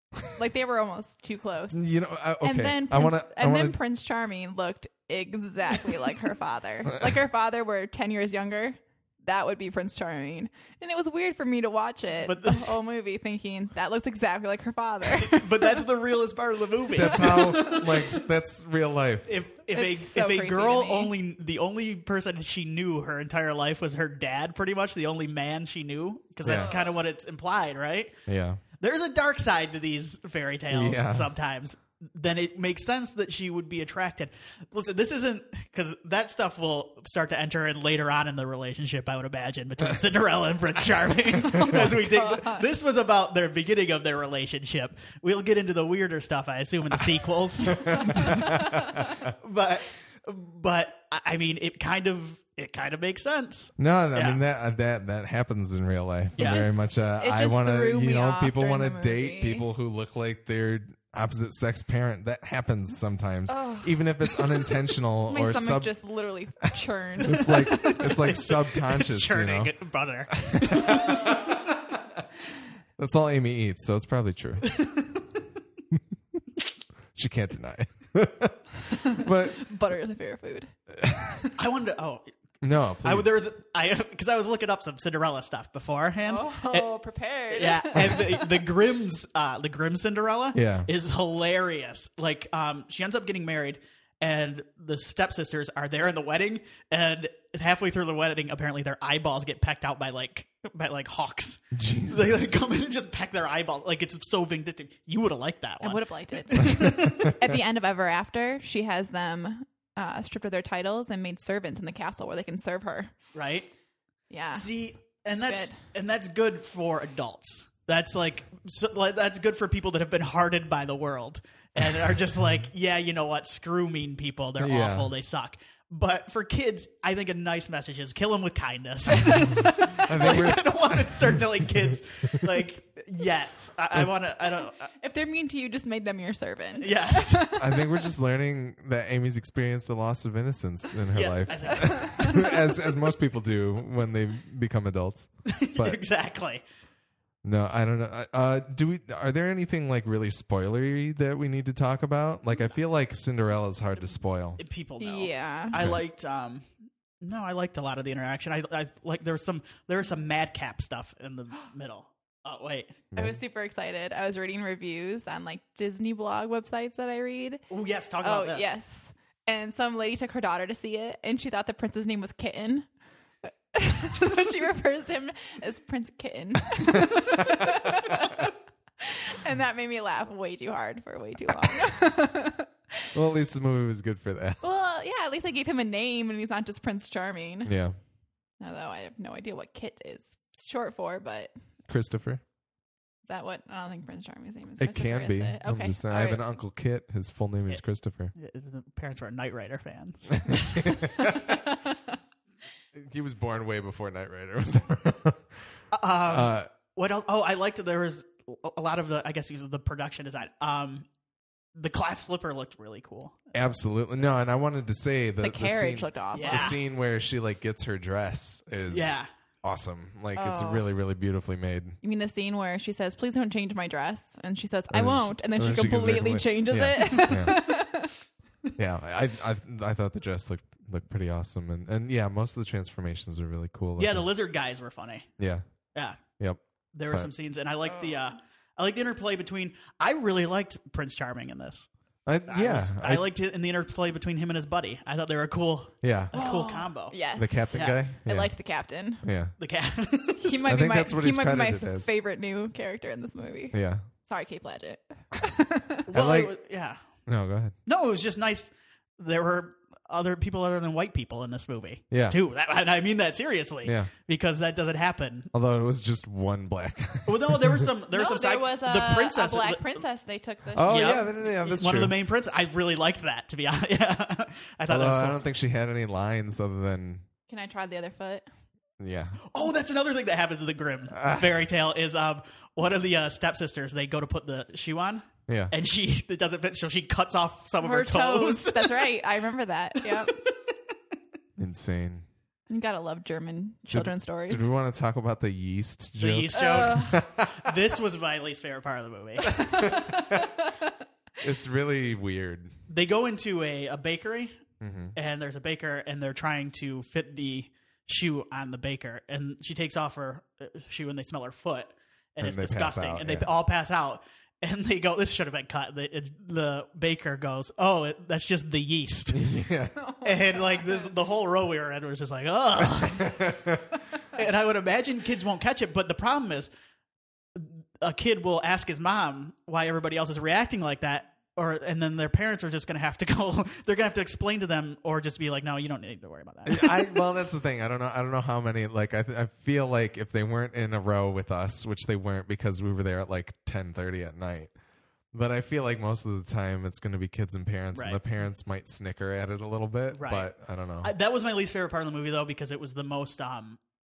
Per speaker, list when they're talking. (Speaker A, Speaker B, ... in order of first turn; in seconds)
Speaker A: 0.3-1.9, 2.4-15.9, 17.0-17.5, 19.7-21.1, 41.5-42.7, 56.4-59.7, 63.5-64.3, 65.3-68.4, 79.0-80.7, 86.2-88.7, 105.8-113.1, 114.3-114.7, 115.4-115.8, 129.3-130.0, 134.9-138.1, 141.7-142.6, 155.0-155.8, 163.2-167.6, 168.2-172.9, 173.4-183.1, 184.6-187.8, 188.6-191.5, 193.3-196.4, 201.2-202.2, 215.4-216.8, 220.3-220.9, 222.0-228.2, 237.9-238.3, 246.3-249.2, 250.4-256.1, 268.1-271.3, 277.5-278.4, 287.8-290.4, 292.7-294.6, 296.5-297.2, 299.4-300.9, 320.0-321.1
Speaker B: 1.7-3.8, 16.9-19.4, 26.4-26.7, 28.3-28.6, 30.7-31.3, 41.6-41.9, 47.7-49.3, 53.8-66.0, 67.2-69.7, 70.5-71.5, 73.0-74.7, 77.2-79.7, 81.0-81.5, 82.6-83.5, 88.0-88.3, 90.5-90.9, 101.7-102.5, 106.6-107.3, 124.6-125.1, 130.0-131.4, 137.6-146.0, 147.4-154.6, 155.8-156.0, 163.1-163.4, 176.9-178.5, 183.1-184.6, 187.7-188.0, 191.9-192.4, 194.8-198.3, 200.4-201.7, 202.9-205.5, 206.3-206.7, 213.5-222.0, 224.9-227.7, 228.8-234.3, 235.4-235.7, 236.4-237.3, 242.3-243.3, 246.0-246.3, 247.4-248.5, 249.2-249.5, 250.5-252.1, 253.7-254.1, 256.1-256.5, 257.3-257.8, 262.1-262.4, 263.9-264.1, 265.5-267.9, 270.8-272.2, 274.9-277.3, 279.0-279.4, 281.1-281.6, 285.5-285.7, 291.6-292.3, 293.9-297.7, 299.6-300.6, 301.4-302.7, 304.8-305.2, 312.4-313.5, 319.3-320.0, 322.8-324.0, 336.7-344.7, 345.3-351.1
Speaker C: 12.2-12.8, 15.1-18.2, 19.3-28.2, 28.8-48.7, 49.3-54.4, 56.4-56.6, 67.3-71.4, 74.7-75.2, 81.6-82.3, 83.0-86.9, 87.5-107.3, 113.3-113.7, 114.5-134.9, 136.8-137.6, 141.2-142.6, 145.5-146.6, 154.6-156.7, 157.2-163.1, 167.7-168.7, 198.3-200.9, 205.9-211.1, 211.8-213.6, 216.3-216.8, 218.9-219.3, 234.0-235.3, 235.9-236.2, 236.9-241.9, 242.5-247.2, 247.7-248.0, 249.6-250.6, 256.1-257.0, 257.9-265.5, 267.3-270.0, 270.9-275.4, 279.5-289.2, 290.0-290.7, 296.2-299.7, 302.9-304.5, 305.2-319.5, 320.2-323.6, 324.3-326.7, 327.6-337.1, 347.9-348.2, 350.1-350.5, 351.0-353.8